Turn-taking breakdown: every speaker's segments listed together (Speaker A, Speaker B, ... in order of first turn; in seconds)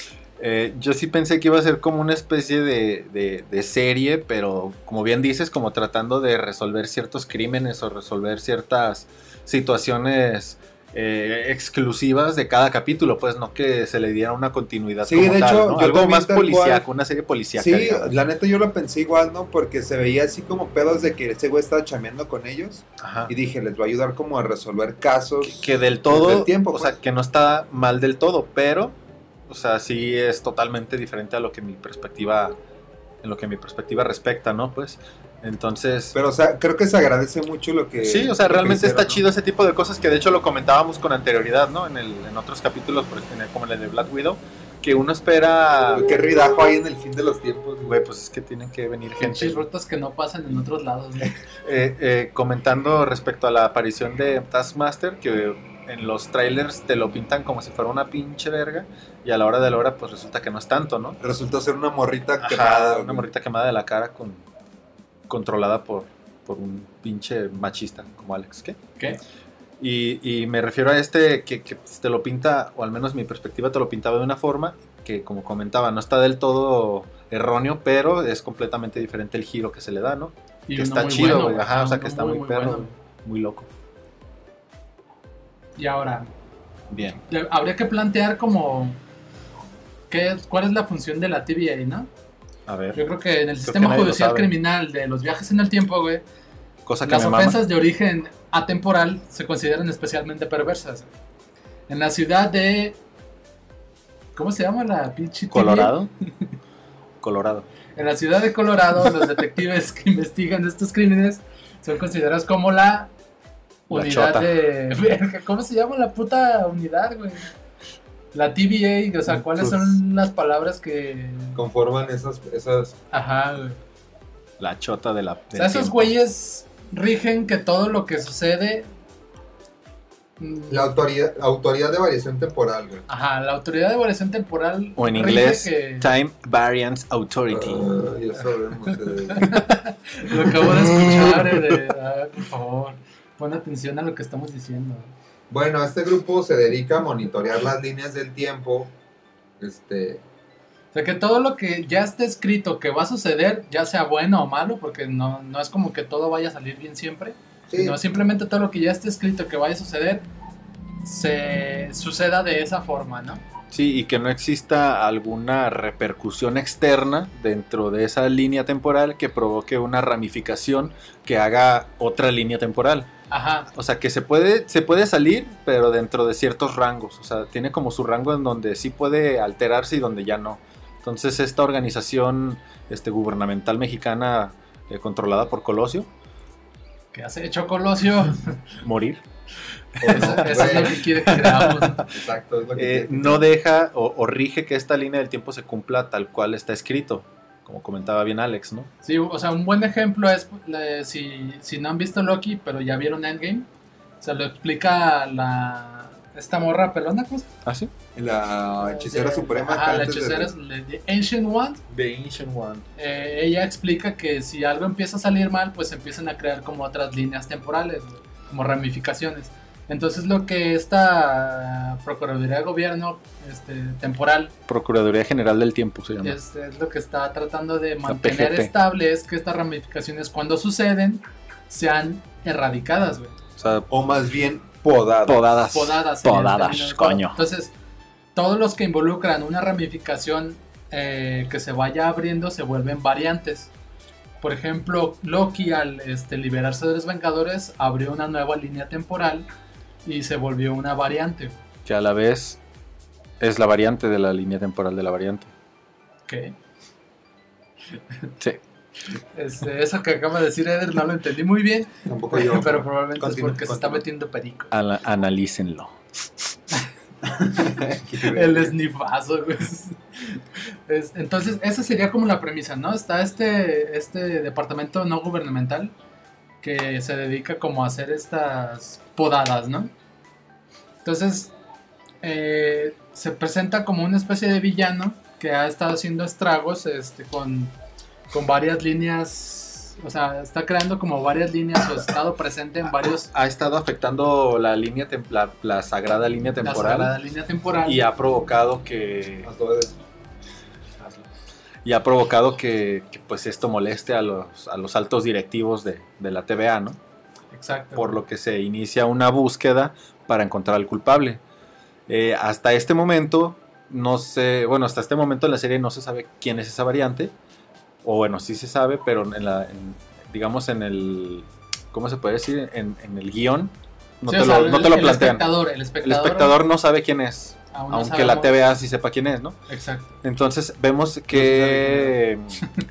Speaker A: 0.4-18.1, 23.0-23.3, 25.4-28.9, 29.5-32.6, 33.2-36.1, 38.0-46.1, 47.9-49.6, 51.6-61.2, 62.4-64.4, 65.3-68.8, 69.8-83.7, 86.9-87.2, 92.7-93.0, 93.6-94.5, 96.8-97.6, 105.5-106.1, 107.2-107.7, 113.9-114.5, 119.3-120.0, 124.6-126.1, 135.0-138.0, 140.3-141.8, 163.7-173.1, 173.7-186.1, 188.8-189.2, 190.0-192.1, 192.8-198.9, 207.6-207.9, 211.9-212.8, 224.7-226.4, 228.1-228.7, 233.6-233.9, 235.2-237.4, 251.8-252.6, 253.4-255.5, 264.7-266.4, 293.3-297.1, 297.9-299.5, 301.0-301.2, 301.8-307.0, 307.9-311.4, 312.1-317.3, 318.0-329.6, 330.2-332.6
Speaker B: 15.0-16.8, 17.5-27.0, 36.1-39.2, 45.9-48.0, 61.2-63.3, 121.5-123.0, 130.7-133.0, 137.5-139.5, 145.5-148.9, 149.6-150.2, 157.7-158.0, 190.0-191.0, 192.1-193.5, 208.1-210.5, 233.9-235.4, 262.1-264.0, 267.2-268.7, 299.4-299.9, 331.3-332.2
Speaker C: 49.2-51.4, 80.7-82.9, 85.8-86.3, 87.3-89.0, 90.1-92.1, 92.9-96.2, 97.0-101.1, 101.9-103.0, 104.3-106.5, 107.9-113.1, 113.9-117.5, 118.3-121.6, 123.1-123.8, 125.5-128.9, 130.4-130.9, 133.1-136.1, 139.3-145.1, 150.9-160.2, 161.0-163.4, 173.3-173.7, 187.1-188.6, 190.0-192.1, 199.0-203.7, 204.2-207.5, 208.8-211.8, 212.9-224.5, 226.2-233.4, 235.7-237.7, 238.3-243.7, 244.4-249.5, 250.0-251.6, 256.3-256.5, 259.3-264.7, 268.2-275.9, 276.6-279.9, 281.0-281.5, 282.2-287.7, 288.3-293.3, 296.6-298.1, 307.5-308.2, 324.3-326.6, 327.7-328.6, 329.7-330.2